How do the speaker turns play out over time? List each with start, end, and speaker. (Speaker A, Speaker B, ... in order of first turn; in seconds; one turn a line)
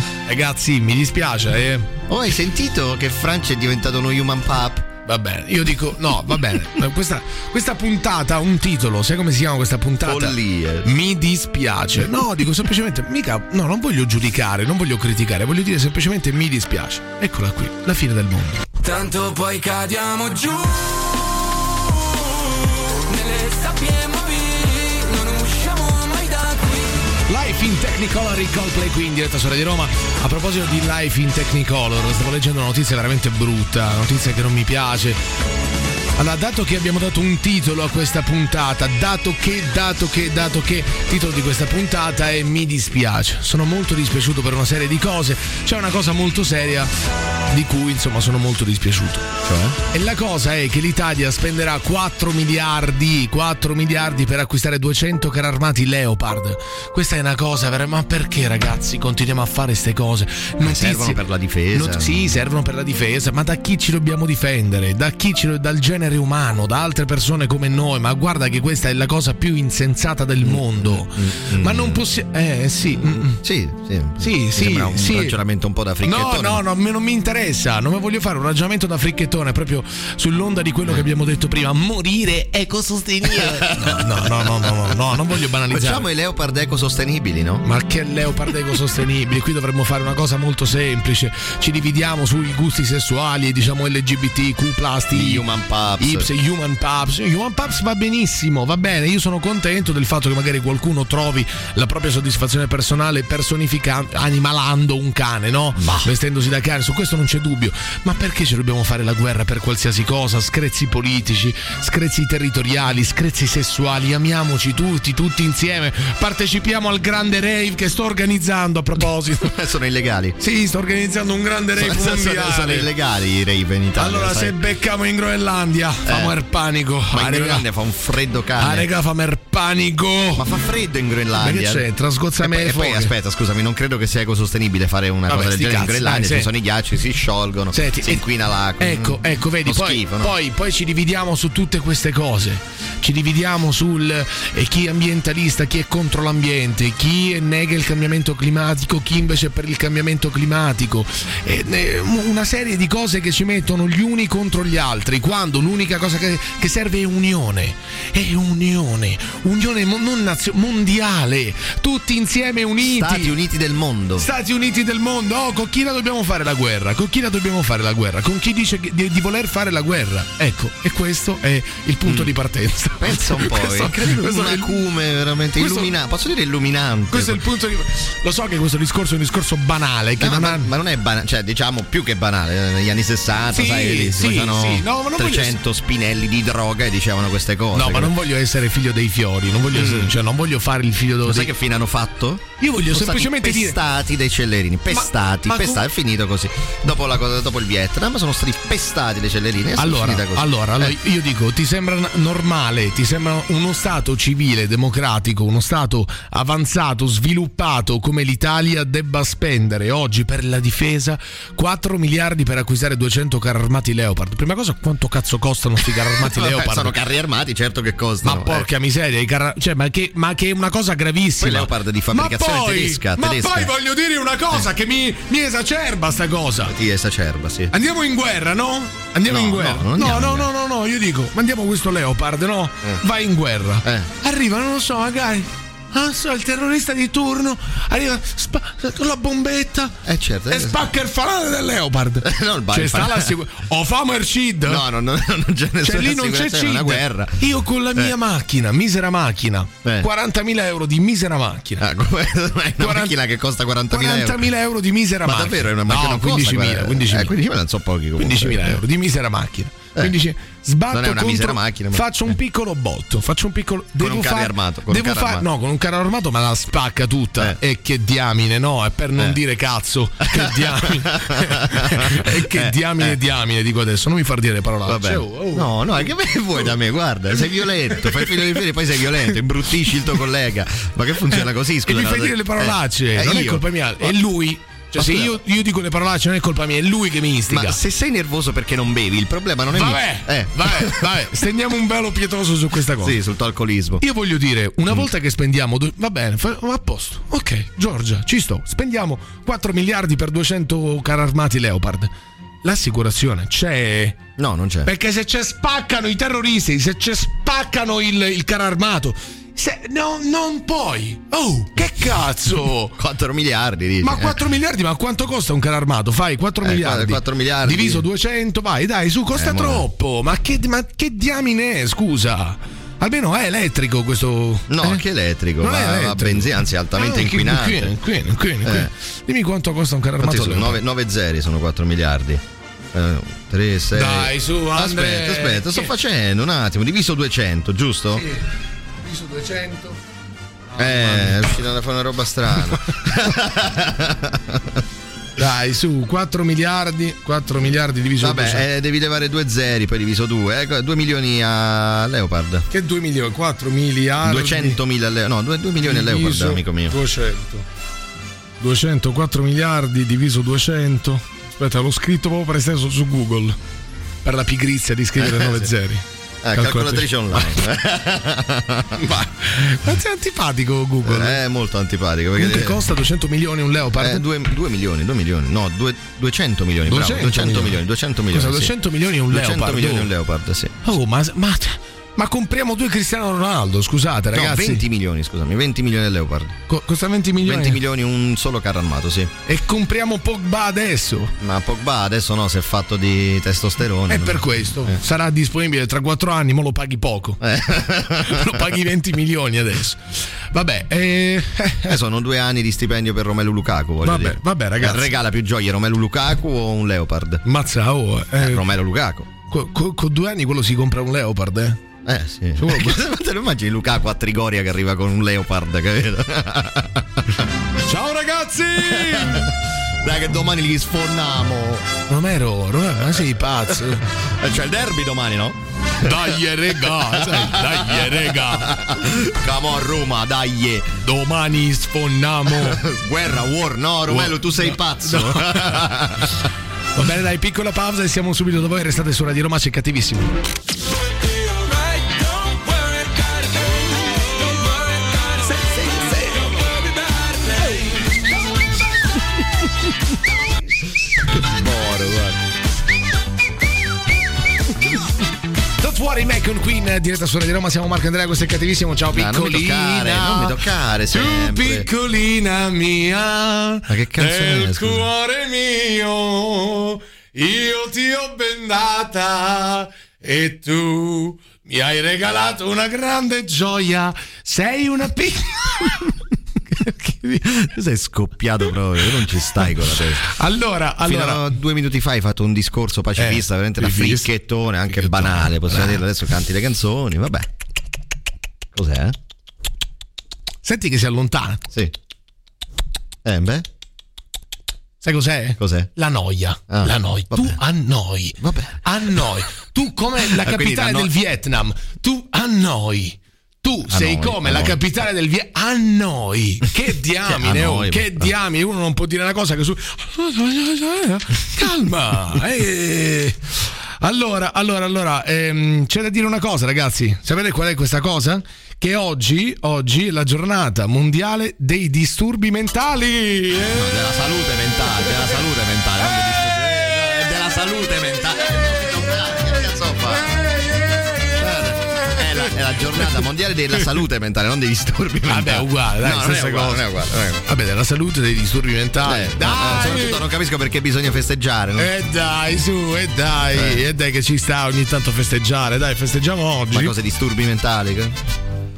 Speaker A: 0.3-1.9
Speaker B: 2.1-4.9
Speaker A: 5.0-18.6
Speaker B: 10.0-10.9
Speaker C: 18.9-20.6
Speaker C: 25.1-26.3
Speaker A: 27.3-35.2
Speaker A: 36.2-46.9
Speaker A: 47.5-49.2
Speaker B: 49.4-49.8
Speaker A: 49.9-61.2
Speaker B: 60.6-62.3
Speaker A: 61.7-73.4
Speaker B: 70.4-72.0
Speaker B: 73.0-76.6
Speaker A: 74.2-75.4
Speaker A: 76.0-86.0
Speaker B: 83.3-85.0
Speaker B: 85.7-87.7
Speaker A: 87.6-95.4
Speaker B: 95.1-96.3
Speaker A: 96.0-119.5
Speaker B: 105.8-106.1
Speaker B: 119.4-120.4
Speaker A: 120.4-122.9
Speaker B: 121.8-124.6
Speaker A: 124.0-127.6
Speaker B: 126.0-126.3
Speaker B: 127.1-128.9
Speaker A: 128.6-130.5
Speaker B: 130.3-131.8
Speaker A: 131.4-133.1
Speaker B: 132.4-140.3
Speaker A: 135.3-136.5
Speaker A: 137.7-138.2
Speaker A: 138.8-163.3
Speaker B: 162.8-164.3
Speaker A: 164.2-174.7
Speaker B: 172.0-172.3
Speaker B: 173.0-177.4
Speaker A: 175.6-175.9
Speaker A: 177.1-180.7
Speaker B: 180.2-188.1
Speaker A: 183.5-185.6
Speaker A: 187.7-191.5
Speaker B: 189.7-190.1
Speaker B: 191.2-200.9
Speaker A: 192.6-193.8
Speaker A: 194.9-195.8
Speaker A: 199.8-216.9
Speaker B: 216.2-218.7
Speaker A: 218.2-226.7
Speaker B: 221.4-223.7
Speaker B: 226.6-227.7
Speaker A: 227.7-239.9
Speaker B: 229.3-230.5
Speaker B: 233.8-234.1
Speaker B: 240.0-240.8
Speaker A: 240.5-244.8
Speaker B: 242.2-243.3
Speaker B: 244.7-247.4
Speaker A: 245.8-251.8
Speaker B: 251.8-254.5
Speaker A: 252.8-253.1
Speaker A: 253.9-257.3
Speaker B: 255.2-258.8
Speaker A: 258.2-275.8
Speaker B: 260.9-262.3
Speaker B: 264.0-265.4
Speaker B: 270.3-273.1
Speaker B: 274.9-284.1
Speaker A: 277.9-278.3
Speaker A: 281.3-287.8
Speaker B: 284.9-285.4
Speaker B: 287.5-291.1
Speaker A: 289.7-293.2
Speaker B: 293.0-294.0
Speaker A: 294.0-302.1
Speaker A: 302.6-304.2
Speaker B: 304.4-304.9
Speaker A: 304.8-312.9
Speaker B: 313.0-314.4
Speaker A: 314.0-325.0
Speaker B: 316.6-318.0
Speaker B: 319.3-319.9
Speaker B: 324.7-327.9
Speaker A: 325.6-330.8
Speaker B: 328.6-328.9
Speaker B: 330.2-332.4
Speaker B: 332.9-338.2
Speaker A: 333.9-335.9
Speaker A: 338.2-338.4
Speaker A: 339.0-340.0
Speaker A: 340.7-341.6
Speaker B: 340.8-344.8
Speaker A: 345.4-348.6
Speaker B: 348.2-352.6
Speaker A: 352.7-354.8
Speaker B: 354.2-357.0
Speaker A: 355.8-357.6
Speaker A: 358.6-363.6
Speaker A: 364.2-366.0
Speaker B: 365.2-365.7
Speaker B: 366.4-369.2
Speaker A: 366.5-367.5
Speaker A: 369.0-371.4
Speaker B: 371.0-372.8
Speaker A: 372.4-374.2
Speaker B: 374.0-378.7
Speaker A: 376.9-377.8
Speaker A: 378.3-380.1
Speaker B: 379.3-380.8
Speaker A: 380.8-384.8
Speaker B: 384.3-386.6
Speaker A: 386.7-387.8
Speaker B: 387.4-389.3
Speaker A: 389.5-391.3
Speaker B: 391.4-395.0
Speaker A: 394.1-397.4
Speaker B: 397.4-398.6
Speaker A: 398.2-401.9
Speaker B: 401.9-407.4
Speaker A: 404.0-405.1
Speaker A: 407.4-408.6
Speaker B: 408.4-409.3
Speaker A: 409.4-411.8
Speaker B: 412.1-417.3
Speaker A: 412.6-413.1
Speaker A: 417.9-419.5
Speaker B: 418.9-421.9
Speaker A: 422.1-424.0
Speaker B: 424.3-426.4
Speaker A: 426.0-428.8
Speaker B: 426.9-430.9
Speaker A: 431.0-432.8
Speaker B: 432.6-436.4
Speaker A: 434.1-435.9
Speaker A: 436.9-440.3
Speaker A: 445.3-446.7
Speaker A: 447.6-448.0
Speaker B: 451.4-452.4
Speaker A: 455.8-460.6
Speaker B: 459.1-461.9
Speaker A: 461.1-476.1
Speaker B: 463.9-465.1
Speaker A: 476.8-477.2
Speaker B: 477.2-480.3
Speaker A: 480.2-481.4
Speaker B: 481.0-487.5
Speaker A: 483.2-484.3
Speaker A: 484.9-486.0
Speaker B: 488.7-489.1
Speaker A: 490.6-491.6
Speaker B: 493.2-493.6
Speaker A: 495.0-513.4
Speaker B: 495.6-495.9
Speaker B: 496.7-497.6
Speaker B: 498.4-498.8
Speaker B: 500.3-501.1
Speaker B: 503.9-504.8
Speaker B: 507.3-508.3
Speaker A: 514.0-523.9
Speaker B: 523.7-530.3
Speaker A: 530.2-532.5
Speaker B: 531.4-537.4
Speaker A: 535.3-536.8
Speaker A: 537.5-540.2
Speaker B: 539.0-541.9
Speaker A: 541.8-546.9
Speaker B: 543.5-543.8
Speaker B: 546.7-548.2